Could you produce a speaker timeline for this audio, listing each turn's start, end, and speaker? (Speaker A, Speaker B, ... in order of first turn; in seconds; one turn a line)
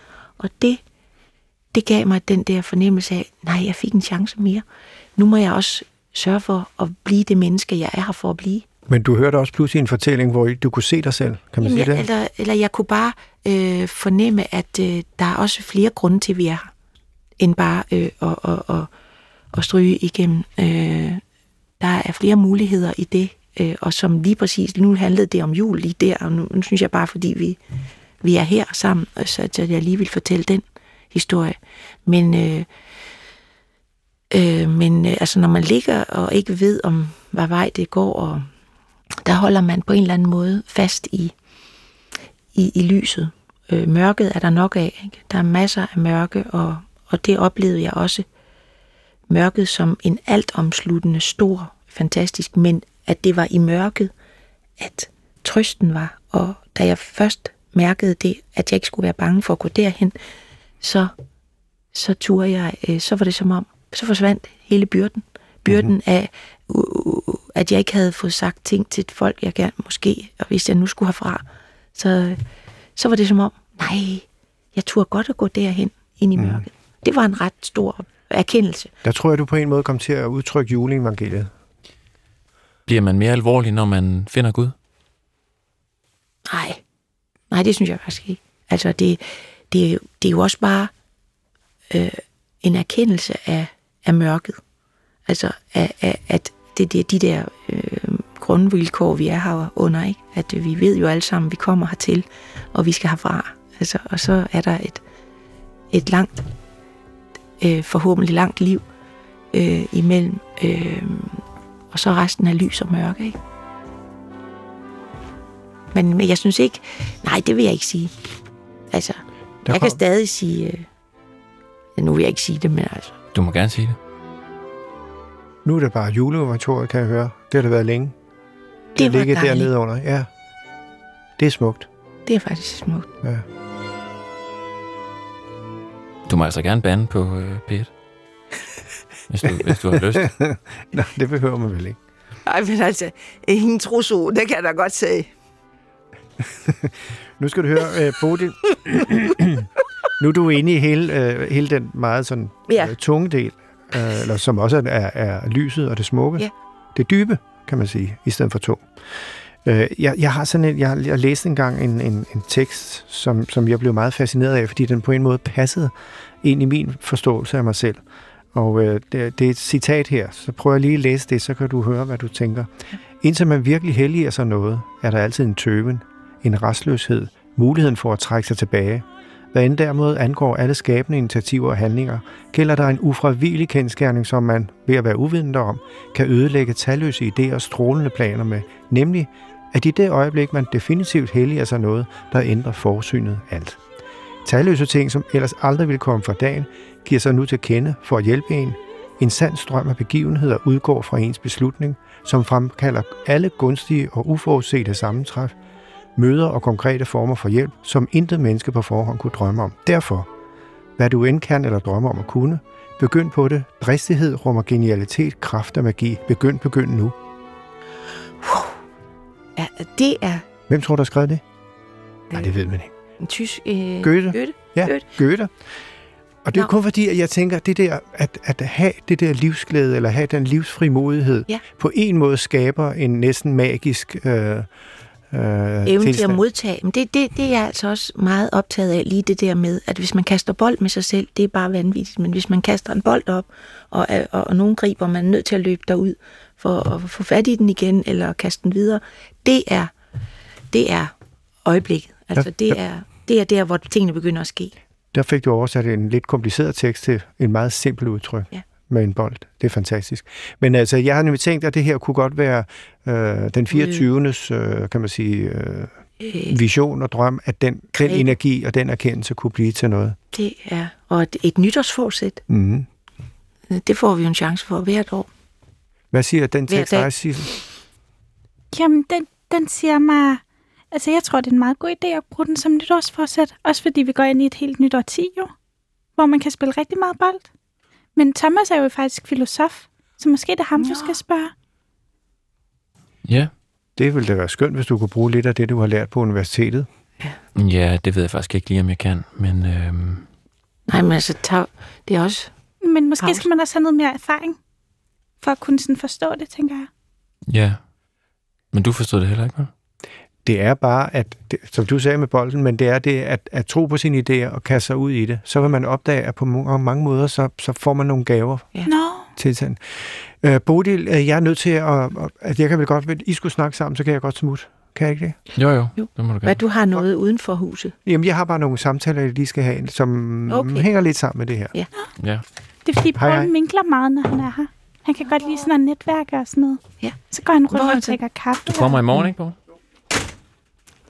Speaker A: 0.4-0.8
Speaker A: 1.7-4.6
Speaker A: 5.2-8.7
Speaker B: 8.9-12.1
Speaker A: 11.6-16.7
Speaker A: 17.4-18.9
Speaker A: 19.5-21.2
Speaker A: 21.8-27.6
Speaker A: 28.2-32.7
Speaker A: 34.3-38.5
Speaker A: 39.2-41.3
Speaker A: 42.5-48.2
Speaker A: 49.3-54.1
Speaker A: 54.8-60.1
Speaker A: 60.8-61.1
Speaker A: 61.9-72.4
Speaker A: 73.0-78.9
Speaker B: 76.3-76.6
Speaker B: 79.0-81.5
Speaker C: 82.9-84.7
Speaker A: 86.5-86.8
Speaker A: 87.5-90.9
Speaker A: 91.9-94.6
Speaker A: 95.3-105.0
Speaker A: 105.9-106.4
Speaker A: 107.6-108.8
Speaker A: 109.5-113.4
Speaker A: 115.9-118.1
Speaker A: 118.9-120.8
Speaker B: 119.6-120.0
Speaker A: 122.0-123.1
Speaker C: 123.3-124.0
Speaker B: 125.6-128.1
Speaker A: 128.9-129.7
Speaker B: 128.9-130.3
Speaker B: 131.4-131.9
Speaker A: 132.2-133.1
Speaker C: 136.3-137.9
Speaker C: 139.3-140.3
Speaker B: 139.6-142.0
Speaker A: 142.4-145.3
Speaker B: 146.4-158.8
Speaker A: 152.7-152.9
Speaker B: 159.6-168.0
Speaker B: 168.5-193.8
Speaker B: 194.4-205.5
Speaker B: 206.2-210.3
Speaker B: 211.0-217.2
Speaker A: 218.4-218.8
Speaker A: 219.6-220.4
Speaker B: 220.7-221.4
Speaker B: 222.3-222.9
Speaker A: 223.2-225.1
Speaker B: 224.0-225.5
Speaker B: 226.4-234.7
Speaker B: 235.3-236.4
Speaker A: 235.8-249.9
Speaker A: 250.7-251.1
Speaker A: 251.6-254.7
Speaker B: 252.3-252.8
Speaker B: 255.1-265.9
Speaker A: 263.7-264.0
Speaker A: 266.2-266.6
Speaker B: 266.5-270.1
Speaker A: 268.0-268.3
Speaker A: 270.3-272.4
Speaker B: 272.5-272.9
Speaker A: 273.7-275.3
Speaker B: 276.1-277.5
Speaker A: 276.7-277.1
Speaker D: 278.7-285.5
Speaker D: 286.1-287.4
Speaker D: 288.1-291.5
Speaker A: 290.8-291.2
Speaker C: 293.2-293.5
Speaker B: 294.0-296.9
Speaker C: 297.5-300.3
Speaker A: 300.9-302.5
Speaker D: 302.8-304.6
Speaker A: 303.2-303.5
Speaker D: 305.4-306.9
Speaker C: 307.5-307.8
Speaker C: 308.7-309.7
Speaker B: 310.4-318.7
Speaker D: 318.9-319.3
Speaker B: 319.3-325.4
Speaker C: 325.6-326.6
Speaker A: 326.0-327.9
Speaker B: 328.0-331.7
Speaker A: 330.5-330.9
Speaker C: 332.2-332.4
Speaker D: 332.8-336.8
Speaker B: 333.2-333.5
Speaker D: 337.3-339.1
Speaker A: 337.7-338.2
Speaker C: 338.6-339.6